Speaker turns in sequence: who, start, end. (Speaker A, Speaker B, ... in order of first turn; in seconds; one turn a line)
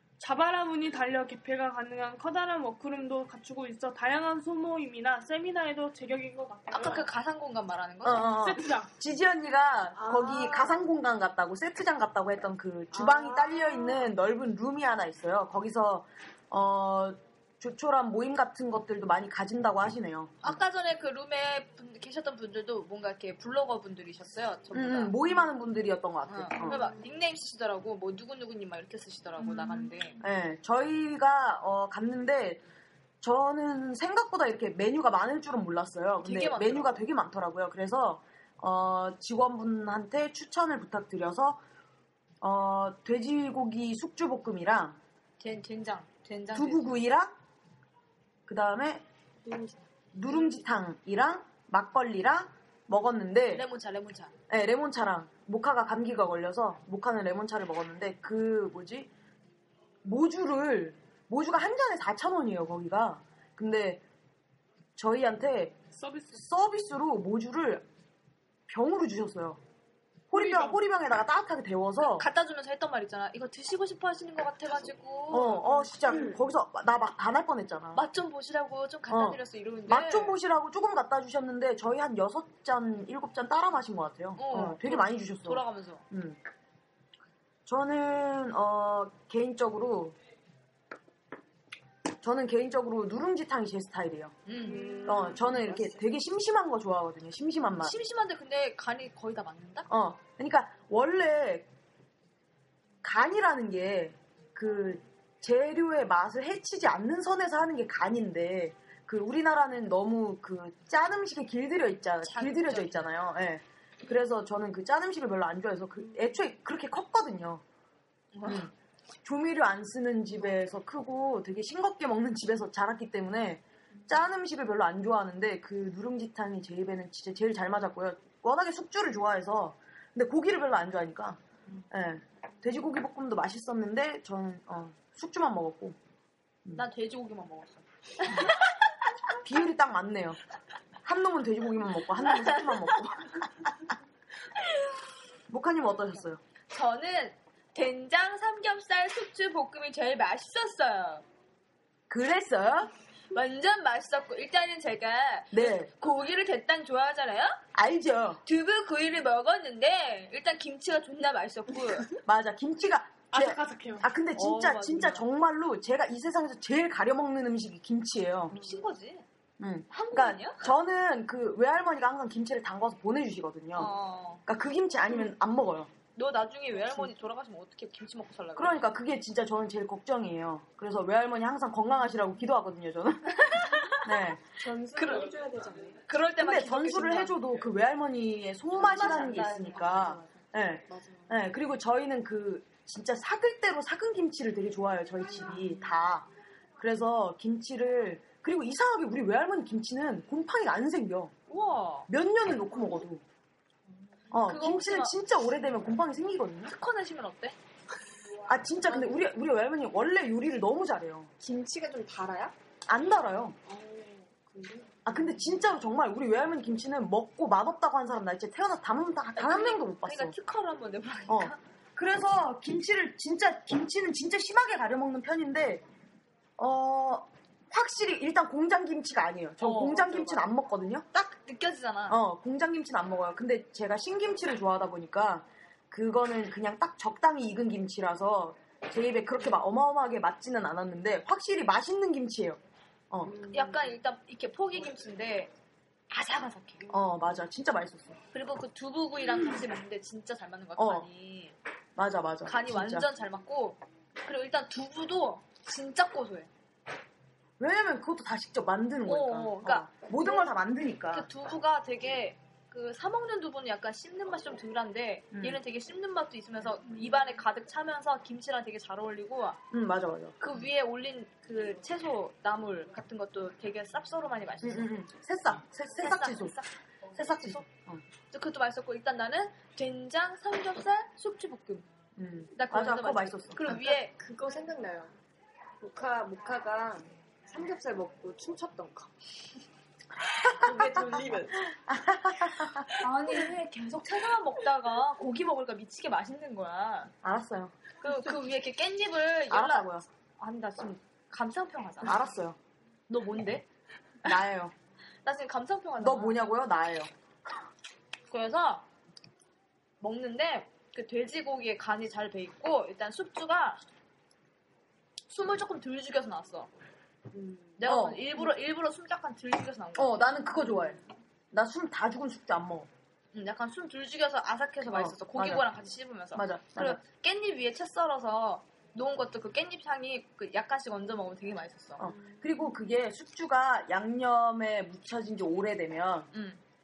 Speaker A: 0.2-7.1
Speaker B: 6.7-8.3
Speaker C: 8.0-20.6
Speaker A: 8.2-8.9
Speaker D: 10.0-10.8
Speaker D: 12.9-14.1
Speaker B: 20.4-25.2
Speaker C: 24.7-26.8
Speaker B: 26.3-30.2
Speaker A: 29.4-29.9
Speaker C: 30.2-32.6
Speaker C: 33.2-41.6
Speaker B: 36.2-37.0
Speaker C: 42.4-45.0
Speaker B: 45.4-47.0
Speaker C: 46.5-47.3
Speaker C: 48.5-49.0
Speaker D: 49.5-49.8
Speaker C: 50.1-53.6
Speaker B: 53.5-54.3
Speaker C: 54.5-59.1
Speaker C: 60.0-64.0
Speaker C: 65.0-65.8
Speaker A: 66.0-66.5
Speaker C: 66.3-67.8
Speaker C: 68.7-69.6
Speaker C: 70.3-72.3
Speaker A: 70.3-70.8
Speaker B: 72.0-75.9
Speaker C: 75.3-78.0
Speaker B: 77.9-80.4
Speaker C: 79.1-86.4
Speaker B: 84.4-86.0
Speaker C: 87.7-90.2
Speaker C: 92.2-94.4
Speaker B: 94.5-95.3
Speaker D: 94.6-96.0
Speaker A: 94.7-95.2
Speaker C: 95.0-98.0
Speaker B: 97.8-99.9
Speaker C: 99.9-101.7
Speaker C: 103.0-117.6
Speaker B: 112.2-113.0
Speaker B: 118.3-118.7
Speaker C: 118.5-118.7
Speaker C: 119.2-131.4
Speaker C: 131.9-136.0
Speaker B: 136.8-138.5
Speaker C: 139.4-140.4
Speaker C: 141.0-143.4
Speaker C: 145.5-146.4
Speaker B: 146.7-151.2
Speaker C: 152.1-152.9
Speaker B: 153.3-157.6
Speaker C: 155.5-155.9
Speaker C: 157.7-158.4
Speaker B: 158.4-162.1
Speaker C: 162.2-168.6
Speaker A: 163.3-164.1
Speaker B: 164.3-165.2
Speaker B: 168.5-169.3
Speaker D: 168.5-168.8
Speaker C: 169.6-173.9
Speaker B: 169.9-170.6
Speaker B: 173.8-174.4
Speaker C: 174.5-175.9
Speaker B: 176.2-178.8
Speaker C: 178.6-184.4
Speaker B: 183.4-184.1
Speaker D: 184.6-186.0
Speaker B: 185.0-185.3
Speaker B: 186.1-187.4
Speaker C: 186.4-196.3
Speaker B: 188.8-190.2
Speaker D: 188.8-190.3
Speaker D: 190.9-191.3
Speaker C: 196.8-201.3
Speaker B: 201.5-202.1
Speaker C: 202.1-203.2
Speaker C: 204.3-206.7
Speaker B: 204.3-205.2
Speaker B: 206.7-207.6
Speaker C: 208.5-211.3
Speaker D: 211.4-212.6
Speaker C: 212.9-213.6
Speaker D: 213.7-215.4
Speaker C: 215.1-220.3
Speaker B: 219.4-221.6
Speaker C: 221.3-225.8
Speaker C: 226.6-231.3
Speaker B: 229.6-230.4
Speaker B: 231.3-232.2
Speaker C: 232.1-242.6
Speaker D: 243.3-243.9
Speaker B: 243.4-245.5
Speaker B: 246.1-246.9
Speaker C: 246.9-248.2
Speaker B: 248.3-251.6
Speaker C: 250.8-251.1
Speaker C: 252.0-253.1
Speaker B: 252.5-256.5
Speaker C: 257.6-261.3
Speaker B: 259.1-260.5
Speaker B: 261.1-269.6
Speaker C: 265.3-265.6
Speaker C: 269.7-270.4
Speaker B: 270.4-274.9
Speaker C: 274.6-276.6
Speaker B: 276.0-277.7
Speaker C: 277.1-278.0
Speaker B: 278.3-281.9
Speaker C: 282.2-283.8
Speaker B: 282.6-284.1
Speaker D: 284.0-285.1
Speaker D: 285.8-289.1
Speaker C: 290.3-291.2
Speaker D: 290.4-291.6
Speaker C: 291.7-292.9
Speaker B: 293.0-297.1
Speaker C: 297.2-297.8
Speaker B: 298.0-299.9
Speaker C: 299.5-300.1
Speaker B: 300.4-302.2
Speaker C: 302.0-302.6
Speaker B: 303.1-303.7
Speaker C: 304.2-304.7
Speaker B: 305.2-306.4
Speaker C: 306.0-307.1
Speaker B: 308.3-308.9
Speaker B: 310.0-313.8
Speaker B: 315.3-316.7
Speaker D: 317.3-317.7
Speaker B: 317.8-320.5
Speaker C: 317.8-318.5
Speaker C: 319.9-321.0
Speaker C: 321.5-322.9
Speaker B: 323.3-332.1
Speaker C: 324.9-325.7
Speaker C: 326.3-327.0
Speaker C: 332.0-336.3
Speaker D: 332.1-332.6
Speaker B: 336.3-336.6